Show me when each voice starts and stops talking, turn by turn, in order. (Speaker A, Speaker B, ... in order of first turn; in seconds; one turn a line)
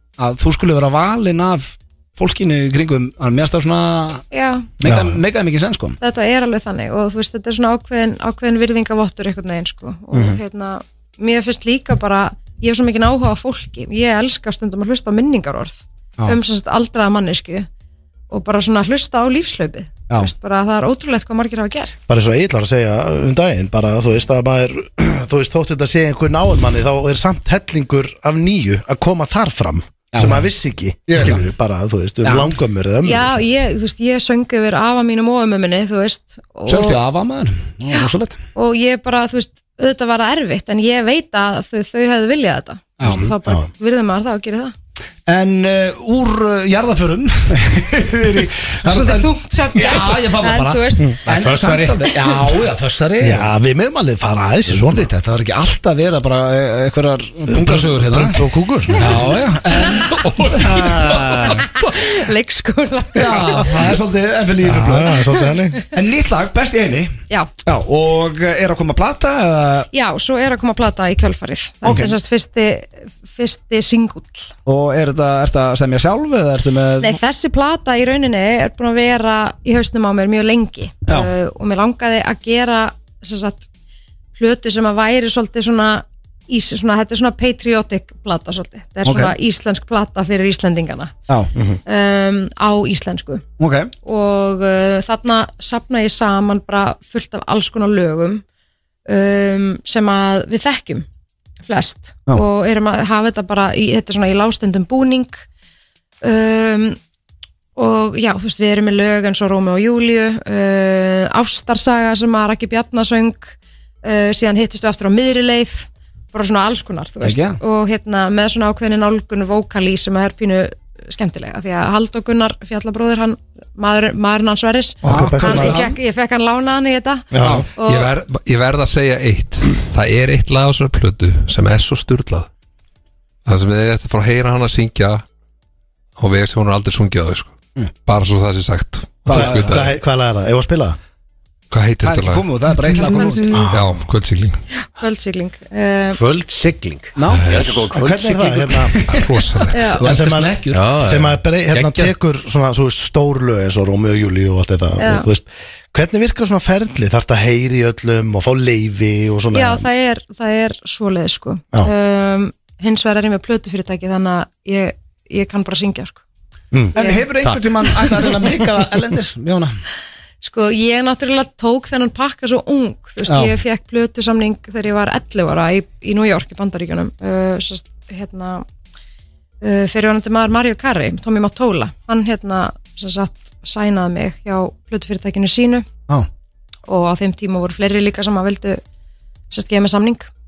Speaker A: 0.2-4.2
Speaker B: 4.3-4.7
Speaker A: 4.8-6.0
Speaker C: 4.8-5.2
Speaker B: 6.0-17.7
Speaker C: 10.1-10.4
Speaker B: 18.3-22.0
Speaker C: 22.1-33.3
Speaker A: 30.1-30.5
Speaker A: 31.1-31.4
Speaker B: 33.0-37.0
Speaker A: 36.7-38.4
Speaker B: 37.9-44.7
Speaker A: 43.0-43.3
Speaker C: 43.0-43.7
Speaker A: 45.3-53.5
Speaker B: 48.9-51.2
Speaker D: 51.3-52.4
Speaker C: 53.2-55.1
Speaker A: 54.7-61.4
Speaker C: 57.5-59.2
Speaker B: 59.7-60.2
Speaker E: 60.0-62.1
Speaker D: 60.5-61.5
Speaker B: 61.4-64.0
Speaker A: 63.1-65.3
Speaker C: 64.6-65.8
Speaker A: 65.9-69.9
Speaker B: 69.9-74.5
Speaker A: 71.8-72.1
Speaker A: 74.7-77.2
Speaker B: 77.0-83.7
Speaker A: 81.1-81.3
Speaker B: 84.4-91.1
Speaker A: 89.0-89.3
Speaker B: 91.9-93.4
Speaker A: 93.6-93.9
Speaker B: 94.0-98.4
Speaker B: 99.1-101.1
Speaker B: 101.7-105.4
Speaker B: 106.2-107.0
Speaker B: 107.8-128.1
Speaker A: 117.2-117.6
Speaker C: 125.0-125.8
Speaker A: 125.1-126.0
Speaker C: 127.3-127.7
Speaker A: 127.4-127.7
Speaker E: 127.8-132.5
Speaker E: 133.5-135.2
Speaker E: 136.2-139.9
Speaker A: 139.3-139.8
Speaker C: 139.3-141.0
Speaker E: 141.7-142.5
Speaker A: 142.0-143.6
Speaker B: 143.0-143.7
Speaker C: 143.5-144.1
Speaker E: 143.7-144.6
Speaker B: 144.9-146.2
Speaker D: 146.1-148.8
Speaker A: 147.2-147.4
Speaker E: 147.3-147.8
Speaker C: 147.9-149.2
Speaker A: 148.9-150.8
Speaker E: 149.1-149.9
Speaker B: 149.7-150.0
Speaker C: 149.9-159.9
Speaker D: 150.7-152.1
Speaker B: 155.0-155.3
Speaker B: 159.5-166.2
Speaker B: 167.0-167.3
Speaker A: 167.0-169.7
Speaker B: 170.4-178.7
Speaker A: 173.3-173.6
Speaker B: 179.6-185.9
Speaker B: 186.9-188.8
Speaker B: 189.5-190.3